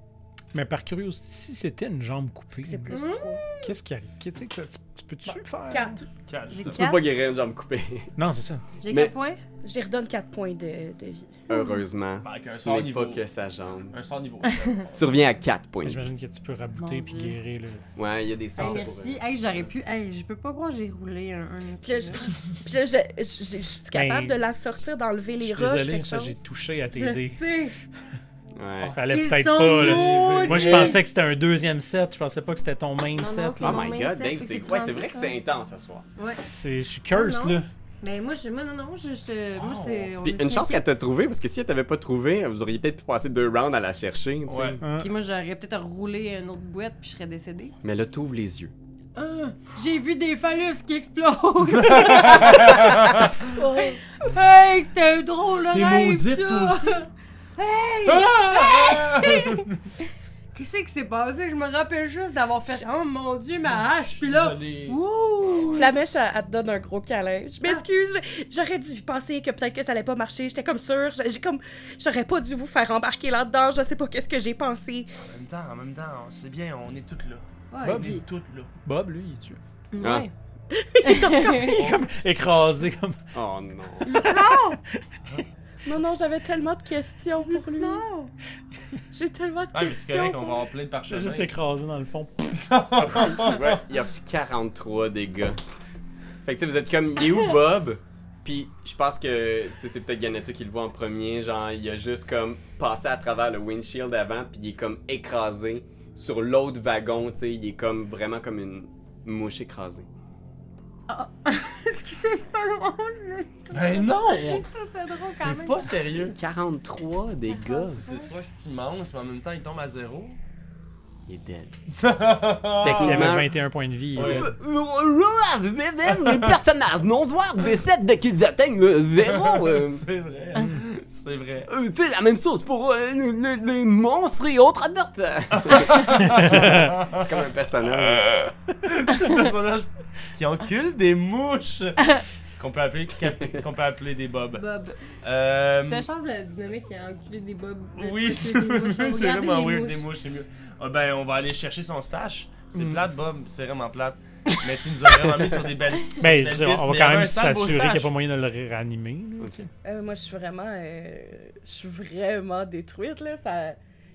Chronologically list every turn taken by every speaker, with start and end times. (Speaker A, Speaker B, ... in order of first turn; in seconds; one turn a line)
Speaker A: 0.5-3.1
Speaker B: 2.6-3.4
Speaker C: 2.9-3.7
Speaker A: 3.6-6.0
Speaker B: 5.3-6.1
Speaker D: 6.3-6.9
Speaker C: 6.5-7.1
Speaker E: 6.7-8.1
Speaker A: 8.2-8.7
Speaker C: 8.8-9.4
Speaker E: 8.9-9.1
Speaker B: 9.6-11.4
Speaker C: 11.5-11.8
Speaker E: 11.5-14.0
Speaker D: 12.2-13.3
Speaker D: 13.9-15.0
Speaker E: 14.9-16.1
Speaker A: 15.8-17.9
Speaker C: 16.8-17.4
Speaker E: 18.0-19.2
Speaker C: 18.6-22.3
Speaker D: 18.6-19.0
Speaker B: 21.8-26.4
Speaker A: 23.9-24.4
Speaker A: 25.4-27.4
Speaker C: 26.9-27.8
Speaker E: 28.6-29.0
Speaker D: 28.8-31.0
Speaker A: 28.9-33.9
Speaker C: 29.1-31.0
Speaker C: 33.2-35.4
Speaker E: 33.6-36.1
Speaker C: 36.2-36.5
Speaker A: 36.3-37.7
Speaker C: 37.1-40.8
Speaker D: 39.5-40.1
Speaker E: 40.2-44.8
Speaker D: 44.5-44.8
Speaker A: 44.8-45.1
Speaker C: 45.0-47.8
Speaker E: 47.8-48.7
Speaker C: 49.2-59.7
Speaker D: 51.8-53.3
Speaker B: 52.4-52.7
Speaker B: 53.4-54.0
Speaker D: 55.7-57.0
Speaker D: 58.1-59.8
Speaker C: 60.5-65.9
Speaker D: 64.1-65.9
Speaker B: 65.7-75.1
Speaker D: 75.2-78.7
Speaker C: 77.7-78.2
Speaker A: 77.8-78.2
Speaker A: 78.8-79.6
Speaker C: 79.9-80.3
Speaker E: 80.0-80.3
Speaker B: 80.7-82.0
Speaker C: 81.0-81.8
Speaker A: 81.7-83.2
Speaker D: 81.8-82.4
Speaker E: 83.3-84.2
Speaker C: 84.1-84.8
Speaker A: 84.1-85.3
Speaker B: 84.2-84.8
Speaker B: 85.8-88.0
Speaker C: 87.5-88.3
Speaker B: 89.1-90.6
Speaker D: 89.7-91.5
Speaker A: 91.0-92.8
Speaker D: 92.6-93.8
Speaker E: 93.0-95.6
Speaker E: 96.4-110.1
Speaker C: 111.1-115.9
Speaker D: 113.7-114.7
Speaker D: 115.4-116.4
Speaker E: 116.2-118.1
Speaker C: 117.6-118.3
Speaker D: 117.6-120.4
Speaker E: 121.3-121.8
Speaker D: 121.9-123.4
Speaker E: 122.8-123.5
Speaker A: 122.8-124.5
Speaker E: 124.2-130.1
Speaker D: 124.2-124.5
Speaker D: 126.2-126.6
Speaker D: 129.2-131.7
Speaker E: 131.7-138.5
Speaker D: 135.5-142.1
Speaker A: 136.4-136.8
Speaker D: 142.6-144.7
Speaker C: 144.6-145.1
Speaker D: 145.2-146.1
Speaker C: 145.8-150.1
Speaker D: 148.0-158.1
Speaker A: 152.7-153.0
Speaker A: 156.2-159.7
Speaker E: 159.4-159.7
Speaker B: 159.8-163.8